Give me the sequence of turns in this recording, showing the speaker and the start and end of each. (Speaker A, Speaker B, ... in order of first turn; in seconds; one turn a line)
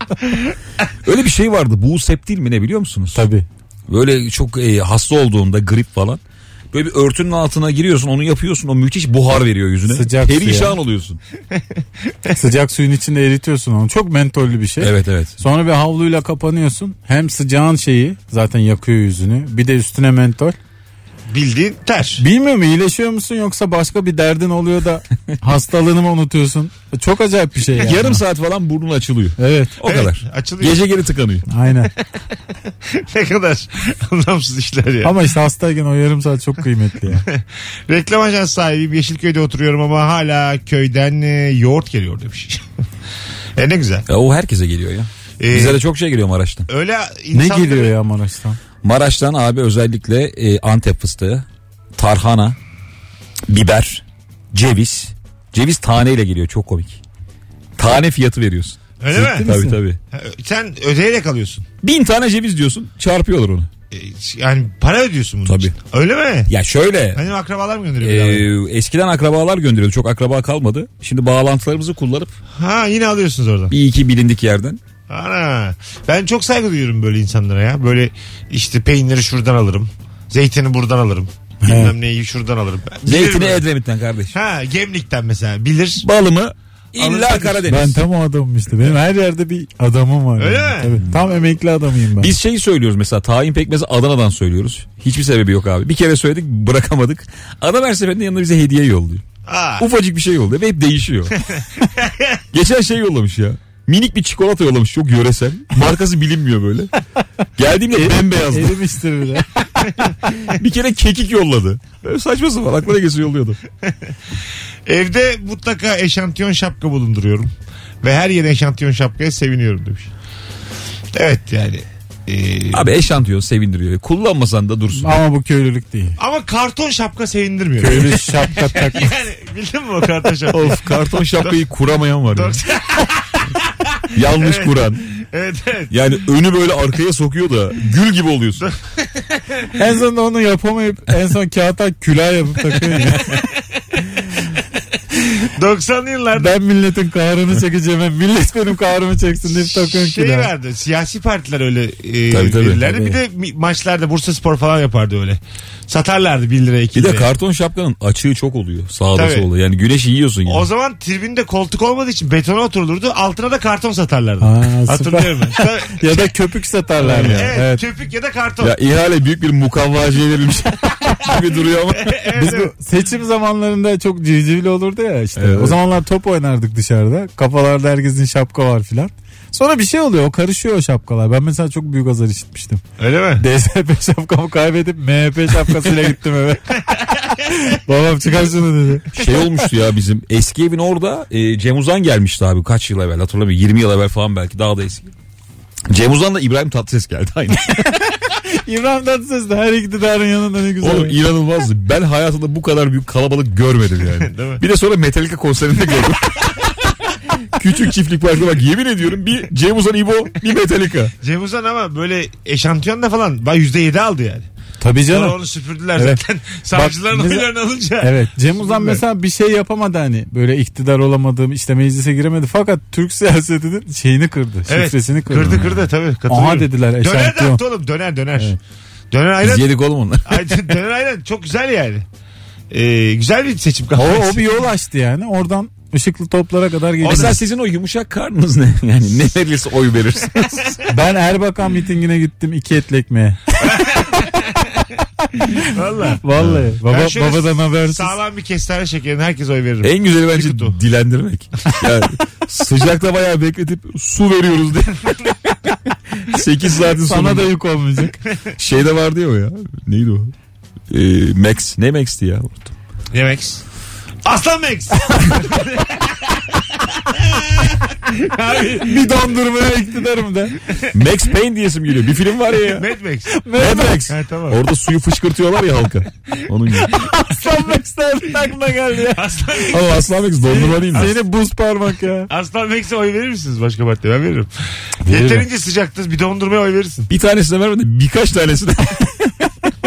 Speaker A: 1.0-3.3
Speaker B: 3.1-3.5
Speaker A: 3.9-6.2
Speaker A: 6.7-11.2
Speaker B: 9.9-10.8
Speaker B: 12.3-20.6
Speaker A: 14.8-15.3
Speaker C: 21.3-22.2
Speaker B: 22.2-28.2
Speaker A: 27.7-31.4
Speaker B: 29.4-29.7
Speaker C: 29.8-30.8
Speaker B: 31.5-31.9
Speaker C: 32.9-35.1
Speaker B: 35.0-37.2
Speaker C: 37.2-42.6
Speaker C: 43.6-44.1
Speaker A: 44.1-46.7
Speaker C: 45.4-45.8
Speaker C: 46.7-47.9
Speaker B: 47.3-48.6
Speaker A: 48.8-51.5
Speaker A: 52.0-52.6
Speaker A: 53.5-57.0
Speaker A: 57.8-60.0
Speaker C: 59.0-59.5
Speaker B: 59.1-59.8
Speaker C: 60.1-61.6
Speaker A: 61.8-63.7
Speaker C: 63.9-66.5
Speaker A: 65.5-65.7
Speaker A: 66.5-67.2
Speaker C: 67.1-68.5
Speaker A: 68.0-72.3
Speaker C: 72.6-73.7
Speaker A: 73.7-74.8
Speaker C: 75.1-83.6
Speaker B: 81.6-81.9
Speaker A: 83.0-84.3
Speaker C: 84.3-86.0
Speaker A: 86.0-88.0
Speaker C: 87.0-87.6
Speaker B: 87.6-92.3
Speaker C: 90.4-91.0
Speaker A: 92.2-99.2
Speaker C: 99.5-99.8
Speaker A: 99.8-101.3
Speaker C: 101.4-102.4
Speaker A: 102.5-106.9
Speaker A: 107.6-108.8
Speaker B: 108.0-109.5
Speaker A: 110.5-113.6
Speaker C: 114.8-120.1
Speaker C: 121.1-122.9
Speaker A: 122.7-125.2
Speaker B: 124.9-126.2
Speaker C: 126.2-130.8
Speaker B: 127.8-129.1
Speaker A: 130.5-132.6
Speaker C: 132.3-135.9
Speaker A: 134.1-135.0
Speaker A: 135.9-138.6
Speaker C: 138.6-139.6
Speaker B: 139.7-143.4
Speaker C: 143.1-143.4
Speaker C: 145.3-146.6
Speaker B: 146.3-150.5
Speaker C: 149.5-157.3
Speaker A: 152.3-152.9
Speaker B: 152.8-153.2
Speaker A: 156.9-160.7
Speaker C: 159.1-159.5
Speaker C: 160.4-166.3
Speaker B: 164.4-167.8
Speaker A: 167.0-167.5
Speaker C: 167.2-168.7
Speaker A: 168.6-172.2
Speaker C: 172.0-172.7
Speaker B: 172.3-182.8
Speaker A: 175.3-175.8
Speaker C: 183.0-183.4
Speaker B: 183.4-186.8
Speaker B: 187.7-189.1
Speaker A: 189.1-195.1
Speaker A: 195.9-197.9
Speaker B: 198.4-201.2
Speaker A: 200.8-206.6
Speaker C: 204.2-204.6
Speaker A: 207.5-211.1
Speaker C: 211.2-214.5
Speaker B: 214.8-215.3
Speaker C: 215.1-219.0
Speaker B: 216.7-217.5
Speaker B: 218.0-225.6
Speaker C: 224.7-228.5
Speaker B: 226.3-227.6
Speaker C: 229.1-232.0
Speaker A: 229.4-230.6
Speaker C: 232.7-234.4
Speaker B: 233.9-237.3
Speaker A: 237.0-240.8
Speaker C: 237.0-237.3
Speaker B: 240.9-244.2
Speaker C: 243.6-244.8
Speaker C: 245.6-246.2
Speaker B: 246.2-248.1
Speaker A: 246.4-246.7
Speaker C: 246.8-250.8
Speaker A: 249.8-257.5
Speaker B: 257.0-258.2
Speaker A: 258.6-260.3
Speaker A: 260.9-262.7
Speaker C: 263.1-263.6
Speaker C: 264.2-269.3
Speaker B: 268.8-270.6
Speaker A: 270.9-272.9
Speaker C: 272.6-273.4
Speaker B: 273.3-274.1
Speaker A: 273.6-276.9
Speaker C: 274.1-274.6
Speaker B: 276.9-279.2
Speaker C: 279.1-281.2
Speaker A: 279.7-281.1
Speaker B: 280.9-282.3
Speaker C: 282.3-284.5
Speaker C: 285.0-287.1
Speaker B: 285.0-285.4
Speaker A: 287.1-289.3